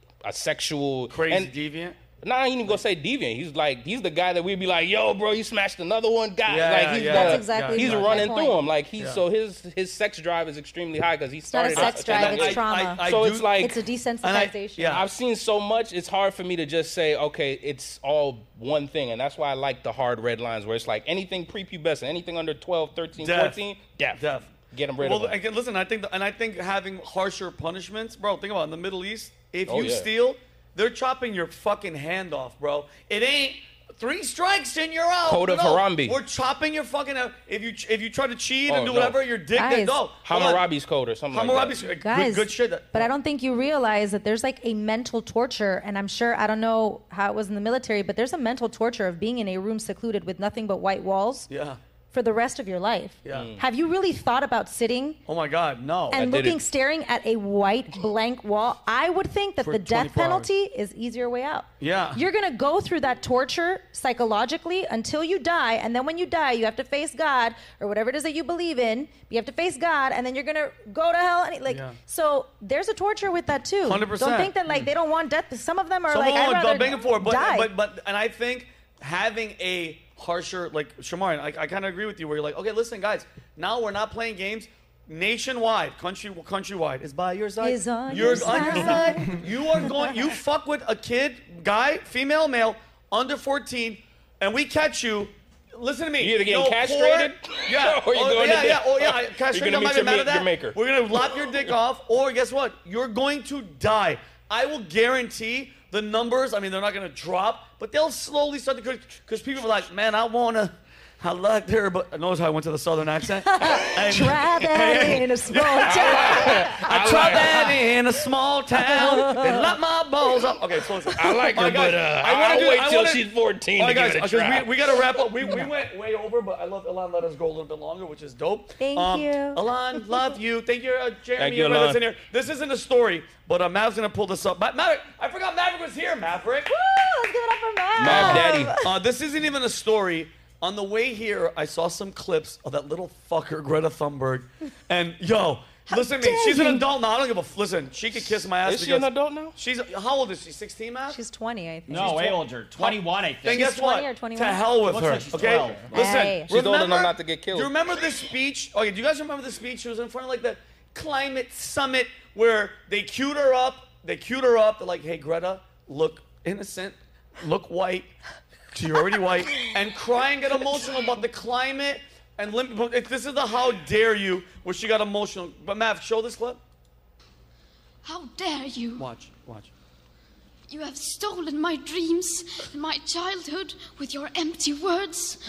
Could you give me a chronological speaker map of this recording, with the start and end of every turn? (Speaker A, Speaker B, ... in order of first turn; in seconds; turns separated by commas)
Speaker A: 0.2-1.5, Speaker B: 1.1-2.0, Speaker A: 2.2-13.8, Speaker B: 6.5-8.2, Speaker C: 7.1-8.6, Speaker C: 11.5-13.0, Speaker B: 11.7-13.6, Speaker C: 13.6-15.0, Speaker B: 14.2-15.0, Speaker A: 14.9-25.4, Speaker B: 23.2-23.6, Speaker B: 24.1-40.6, Speaker A: 29.7-30.1, Speaker A: 35.2-36.2, Speaker A: 38.7-39.2, Speaker C: 39.5-40.0, Speaker A: 40.2-41.9, Speaker B: 41.3-43.1, Speaker C: 42.0-51.5, Speaker B: 51.5-51.8, Speaker C: 52.1-55.2, Speaker A: 53.3-53.6, Speaker B: 55.3-56.2, Speaker C: 56.1-77.7, Speaker A: 56.1-56.6, Speaker B: 59.6-60.5, Speaker B: 61.8-62.2, Speaker B: 71.7-72.0, Speaker B: 73.8-74.9, Speaker B: 76.1-136.7, Speaker C: 87.6-90.0, Speaker A: 96.2-101.7, Speaker C: 113.4-117.7, Speaker A: 115.8-118.0, Speaker C: 118.8-119.7, Speaker A: 121.1-125.1, Speaker C: 125.4-125.7, Speaker C: 128.8-130.2, Speaker A: 131.4-132.0, Speaker C: 136.7-138.9, Speaker A: 138.0-138.8, Speaker B: 138.0-151.2, Speaker C: 145.9-146.8, Speaker A: 148.6-149.6, Speaker C: 151.1-152.4, Speaker D: 151.9-153.6, Speaker B: 151.9-152.2, Speaker B: 152.8-168.1, Speaker C: 153.5-154.7, Speaker D: 154.8-156.0, Speaker C: 155.9-156.5, Speaker A: 156.5-157.7, Speaker B: 168.7-176.6, Speaker E: 178.0-179.1, Speaker B: 179.0-179.7, Speaker E: 180.7-185.4